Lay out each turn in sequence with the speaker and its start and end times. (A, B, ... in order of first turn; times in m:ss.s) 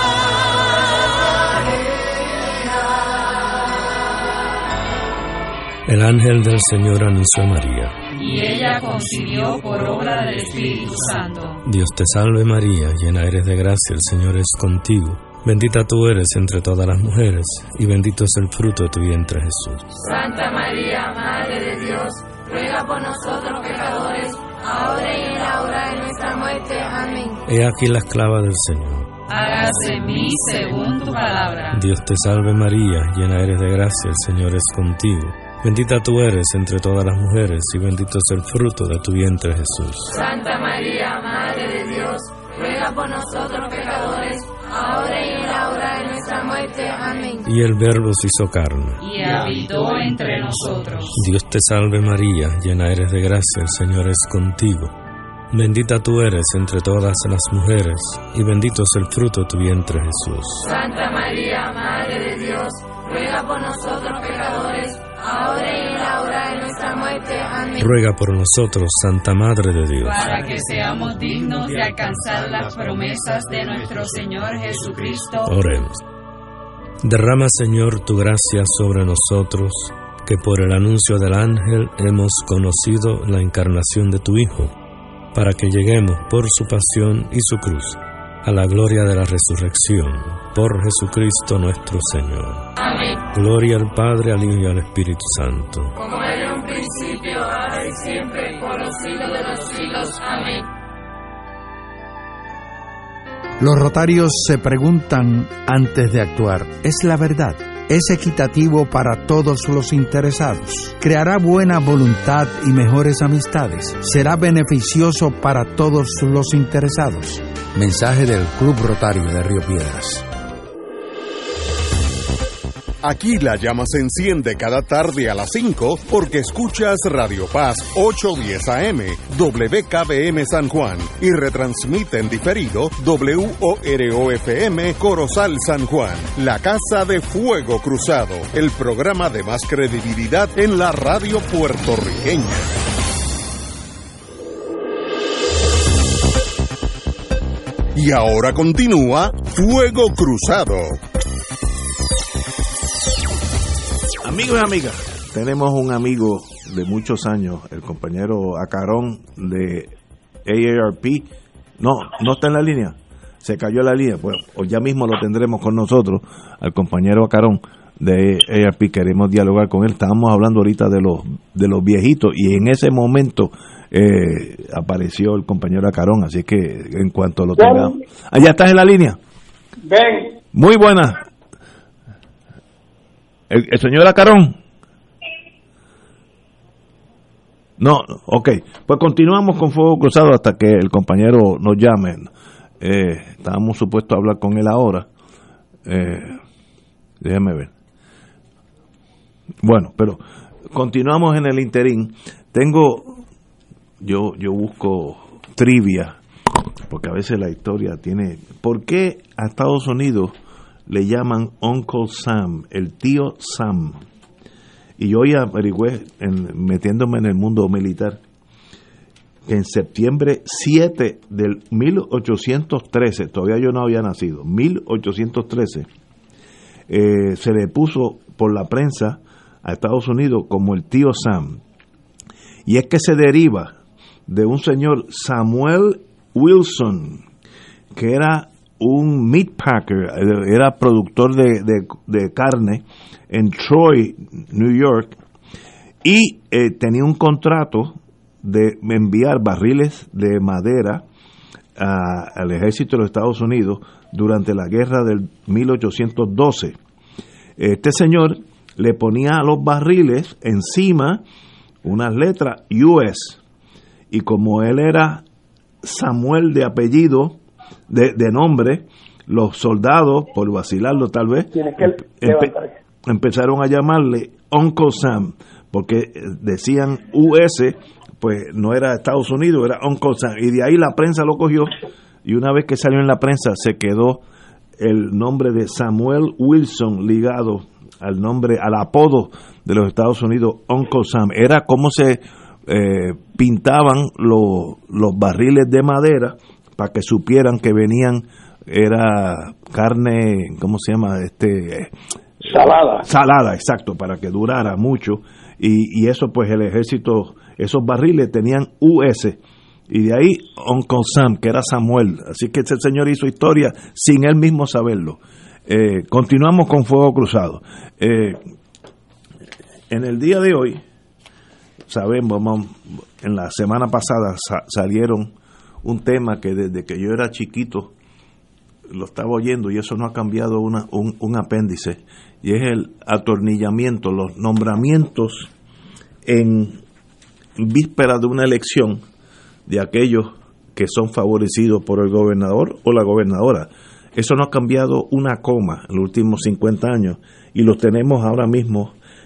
0:05.8-0:08.0 A
0:08.2-0:11.6 B
0:11.6-0:20.0 A
0:20.0-0:27.4 B
0:27.4-0:29.1 A
0:29.3-0:31.8 B
0:31.7-0:40.1 A
0:40.1-0:47.4 B
0:47.4-0:49.0 A
0:49.0-0:51.1 B
0:51.1-0:54.9 A
0:55.5-1:00.6 A
1:00.6-1:07.8 B
1:07.8-1:10.2 A
1:10.0-1:15.5 B
1:15.4-1:16.0 A
1:17.0-1:24.7 A
1:25.3-1:32.7 A
1:32.8-1:33.2 B
1:33.3-1:35.9 A
1:36.0-1:40.6 B
1:43.6-2:00.2 C
2:03.0-2:22.7 D
2:27.9-2:31.0 D
2:34.2-2:39.9 E
2:40.4-2:41.3 E
2:41.8-2:59.2 E
2:57.6-2:57.9 F
2:59.8-3:00.4 F
3:00.5-3:01.2 E
3:03.5-3:04.6 E
3:07.8-3:15.1 E
3:15.8-3:16.4 E
3:17.2-3:17.7 E
3:19.6-3:23.2 E
3:24.0-3:26.2 E
3:26.9-3:30.3 E
3:30.9-3:34.0 E
3:35.0-3:38.2 E
3:39.4-3:45.9 E
3:46.9-3:51.6 E
3:52.6-3:57.2 E
3:57.9-4:05.2 E
4:06.0-4:11.0 E
4:11.8-4:16.8 E
4:17.6-4:21.2 E
4:21.8-4:23.4 E
4:24.1-4:25.2 E
4:25.8-4:27.4 E
4:27.9-4:32.5 E
4:31.5-4:32.7 F
4:33.0-4:44.2 E
4:44.8-5:01.9 E
5:02.4-5:03.0 F
5:02.4-5:18.4 E
5:19.9-5:20.8 E
5:21.9-5:25.3 E
5:25.8-5:27.9 E
5:28.9-5:35.5 E
5:36.2-5:36.8 E
5:37.6-5:39.0 E
5:39.7-5:48.9 E